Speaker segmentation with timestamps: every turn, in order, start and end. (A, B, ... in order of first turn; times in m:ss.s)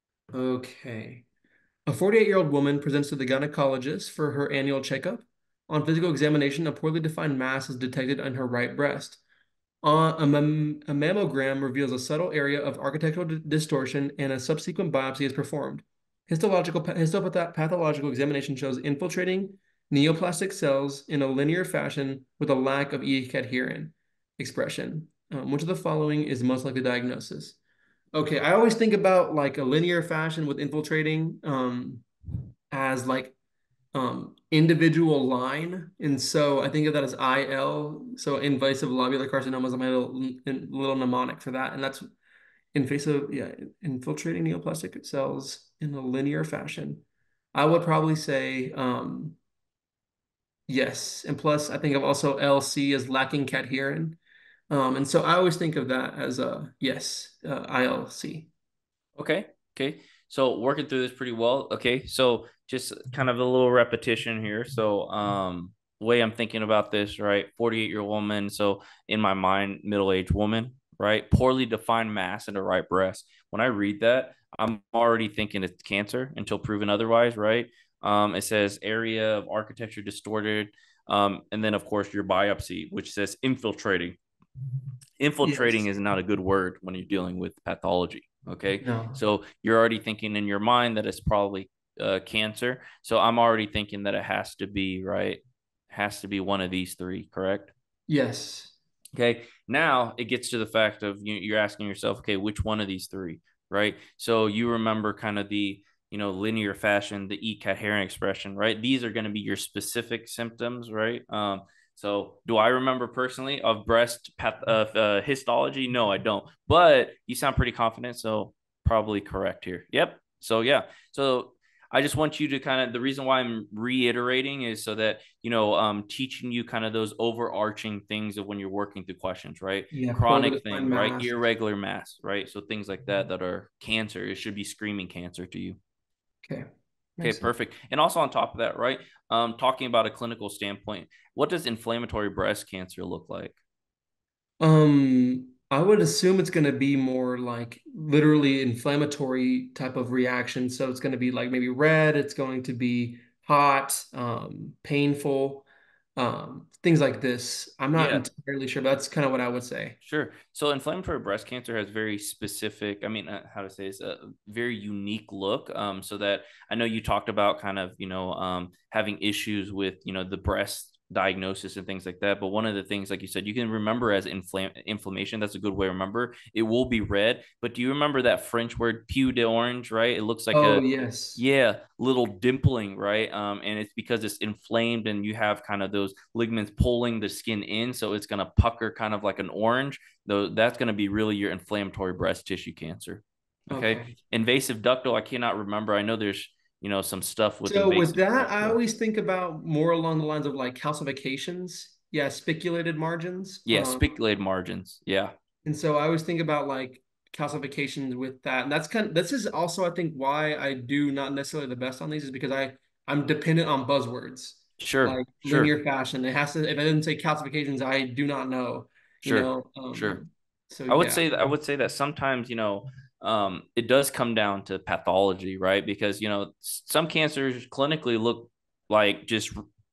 0:00.3-0:01.2 A
0:01.9-0:09.2 A
0:09.8-0:27.6 A
0:28.1-0:32.0 A
0:32.7-0:33.3 A
0:33.9-0:42.1 A
0:42.7-0:49.4 A
0:50.7-0:54.2 A
0:54.7-0:58.5 A
0:59.2-1:24.2 B
1:25.2-1:37.7 B
1:25.4-1:25.8 A
1:28.8-1:29.2 A
1:38.1-1:38.7 A
1:39.1-2:15.8 B
2:09.9-2:11.3 A
2:16.4-2:17.5 A
2:17.2-2:23.6 B
2:24.6-2:35.6 A
2:36.2-2:40.0 A
2:37.9-2:38.2 B
2:40.0-3:00.8 B
3:00.5-3:01.4 A
3:01.4-3:18.8 B
3:13.7-3:14.2 A
3:17.6-3:24.0 A
3:23.6-3:25.3 B
3:25.6-3:41.3 A
3:34.8-3:35.7 B
3:39.2-3:40.2 B
3:40.9-3:49.6 B